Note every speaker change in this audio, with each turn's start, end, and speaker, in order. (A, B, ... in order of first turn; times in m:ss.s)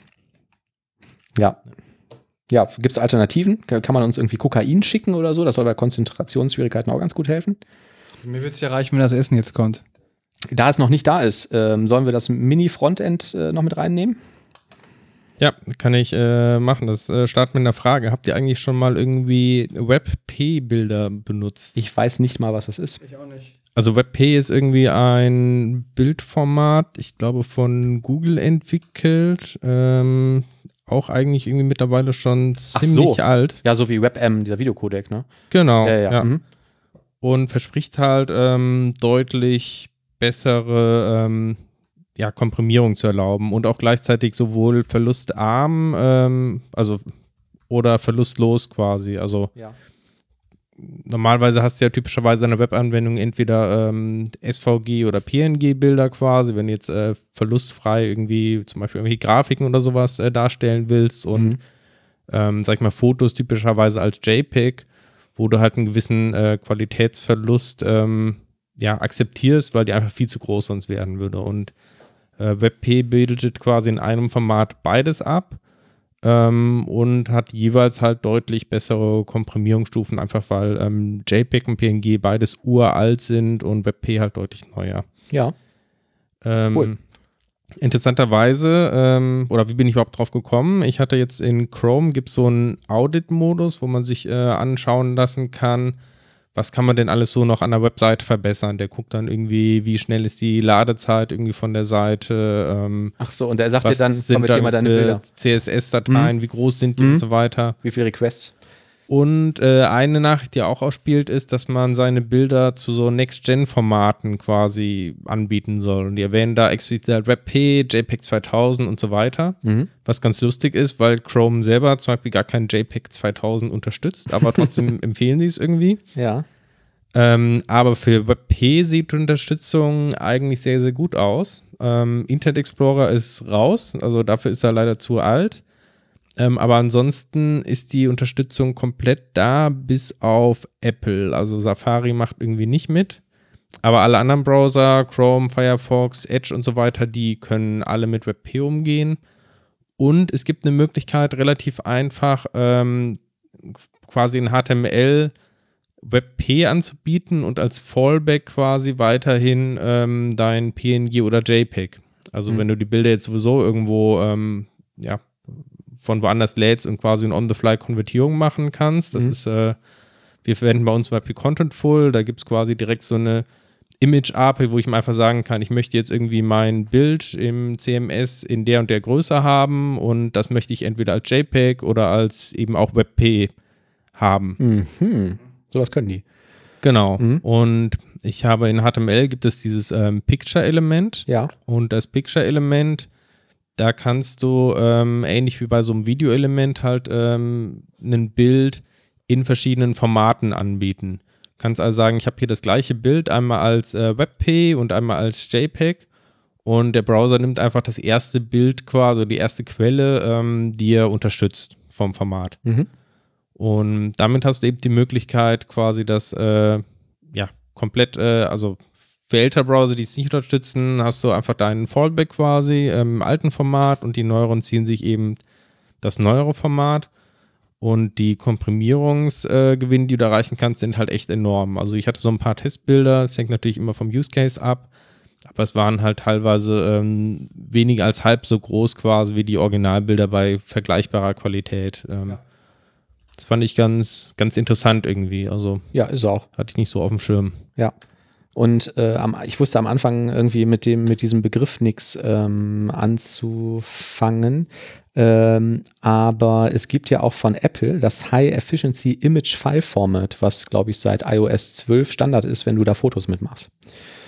0:02.5-0:07.6 A
0:08.2-0:09.8 B
0:10.5-0:14.2 A
0:15.4-0:21.8 C
0:21.8-0:23.0 A
0:23.0-0:23.5 B
0:23.8-0:33.6 C
0:32.8-0:35.3 A
0:35.5-0:36.3 C
0:35.8-0:36.4 A
0:37.2-0:41.6 C
0:42.2-0:47.1 C
0:47.7-0:49.5 C
0:50.8-1:01.6 C
1:02.3-1:04.8 C
1:05.4-1:11.7 C
1:12.4-1:15.6 C
1:16.2-1:25.1 C
1:26.4-1:27.0 C
1:27.8-1:36.0 C
1:36.6-1:43.2 C
1:43.2-1:45.2 A
1:43.8-1:47.8 C
1:46.1-1:46.3 A
1:47.0-1:47.2 A
1:47.8-1:48.5 A
1:49.1-2:06.0 C
1:59.6-1:59.9 A
2:06.2-2:06.4 A
2:07.1-2:15.6 C
2:16.4-2:23.2 C
2:23.8-2:29.2 C
2:30.0-2:33.2 C
2:34.0-2:35.3 C
2:36.0-2:49.8 C
2:50.4-2:53.4 C
2:54.0-3:03.5 C
3:04.2-3:04.6 C
3:04.6-3:06.2 A
3:06.8-3:13.1 C
3:11.3-3:11.5 A
3:13.8-3:26.0 C
3:26.6-3:32.6 C
3:33.6-3:45.4 C
3:46.0-3:47.1 C
3:47.8-3:54.9 C
3:55.4-4:02.4 C
4:03.4-4:05.9 C
4:05.9-4:06.5 A
4:06.6-4:07.6 C
4:08.6-4:23.7 A